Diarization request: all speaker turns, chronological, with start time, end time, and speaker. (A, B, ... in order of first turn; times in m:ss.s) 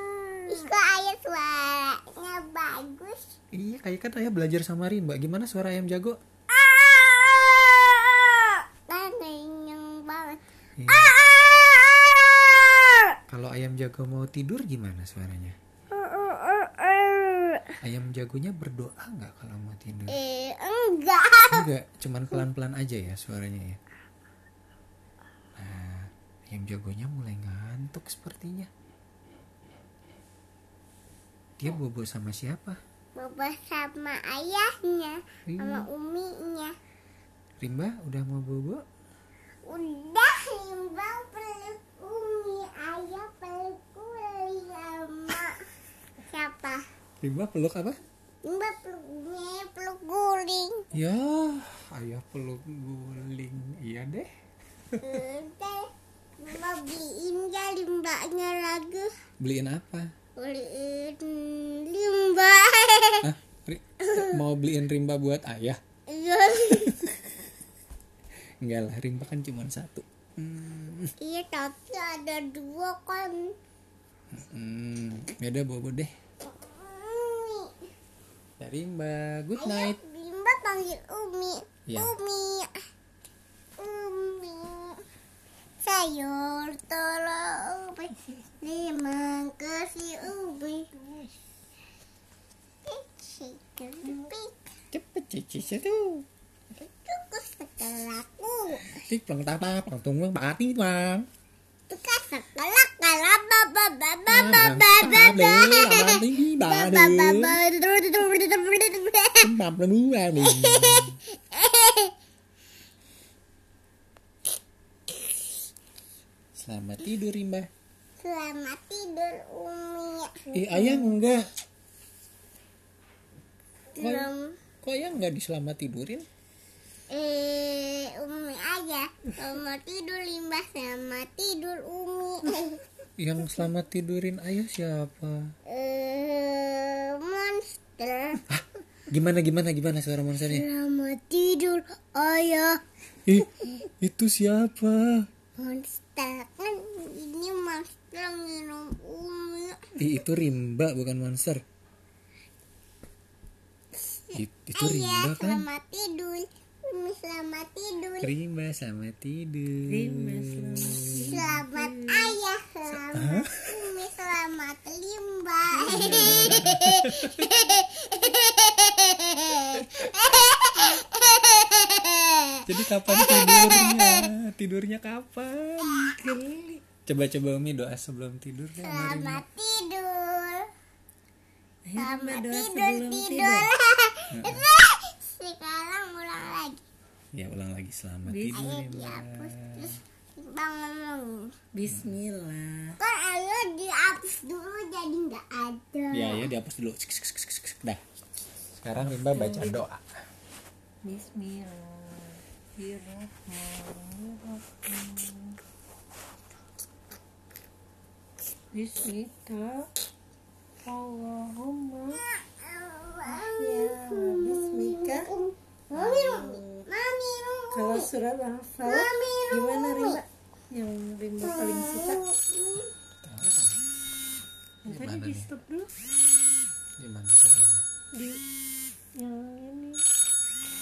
0:00.4-0:03.3 A
0:03.6-0:06.2 B
0:06.5-0:13.1 A
0:10.8-0:11.2 B
0:13.3-0:15.6 B
0:15.9-0:17.7 A
0:17.8-0:20.2 B
0:20.1-0:21.7 A
0:21.5-0:23.8 B
0:25.6-0:28.7 B
0:31.6-0:32.8 B
0:33.2-0:36.7 A
0:35.5-0:35.9 B
0:37.6-0:38.8 B
0:39.6-0:45.6 A
0:46.3-0:46.8 A
0:47.2-0:48.0 B
0:48.4-0:50.9 A
0:50.9-0:54.3 B
0:55.0-0:59.1 A
0:59.4-1:00.1 B
1:00.4-1:03.3 A
1:03.2-1:05.8 B
1:04.1-1:04.4 A
1:06.1-1:07.0 A
1:06.6-1:07.3 B
1:08.6-1:11.1 B
1:11.2-1:13.6 A
1:14.3-1:16.1 B
1:16.4-1:17.8 A
1:18.6-1:20.0 B
1:19.6-1:22.7 A
1:21.9-1:22.1 B
1:23.8-1:25.0 A
1:25.8-1:30.9 A
1:32.8-1:34.5 A
1:34.9-1:36.2 B
1:36.8-1:39.0 A
1:39.0-1:41.3 B
1:41.9-1:49.5 A
1:44.3-1:47.6 B
1:49.4-1:51.2 B
1:50.4-1:52.1 A
1:56.6-1:57.7 B
1:58.2-2:00.5 A
2:00.5-2:01.5 B
2:00.6-2:01.1 C
2:03.9-2:04.6 A
2:04.0-2:04.3 B
2:04.8-2:06.2 B
2:07.1-2:12.8 A
2:13.2-2:15.5 B
2:15.7-2:18.4 A
2:18.5-2:20.6 B
2:20.4-2:22.8 A
2:23.2-2:25.2 B
2:25.6-2:29.8 A
2:30.0-2:31.6 B
2:34.0-2:38.3 A
2:34.3-2:35.7 B
2:38.2-2:41.4 B
2:39.9-2:42.4 C
2:41.2-2:54.3 A
2:43.1-2:43.9 B
2:45.8-2:47.5 B
2:46.1-2:46.4 C
2:49.7-2:50.0 B
2:52.6-2:56.2 B
2:56.2-2:56.8 C
2:57.0-2:59.4 B
2:58.8-3:00.7 A
3:01.9-3:03.7 C
3:01.9-3:06.8 A
3:04.3-3:04.7 B
3:07.3-3:10.0 B
3:08.3-3:08.6 C
3:08.5-3:11.6 A
3:11.7-3:13.0 C
3:11.9-3:12.2 B
3:13.0-3:16.5 A
3:16.1-3:18.0 B
3:18.8-3:20.0 B
3:19.2-3:19.8 C
3:21.0-3:25.5 C
3:28.7-3:29.9 C
3:30.8-3:32.2 C
3:32.1-3:38.1 A
3:33.3-3:35.3 C
3:35.9-3:36.8 C
3:37.7-3:42.2 C
3:38.8-3:40.2 A
3:41.4-3:42.9 A
3:43.2-3:43.8 B
3:44.9-3:45.5 B
3:44.9-3:45.9 C
3:47.0-3:47.8 B
3:48.1-3:48.4 C
3:49.2-3:50.0 C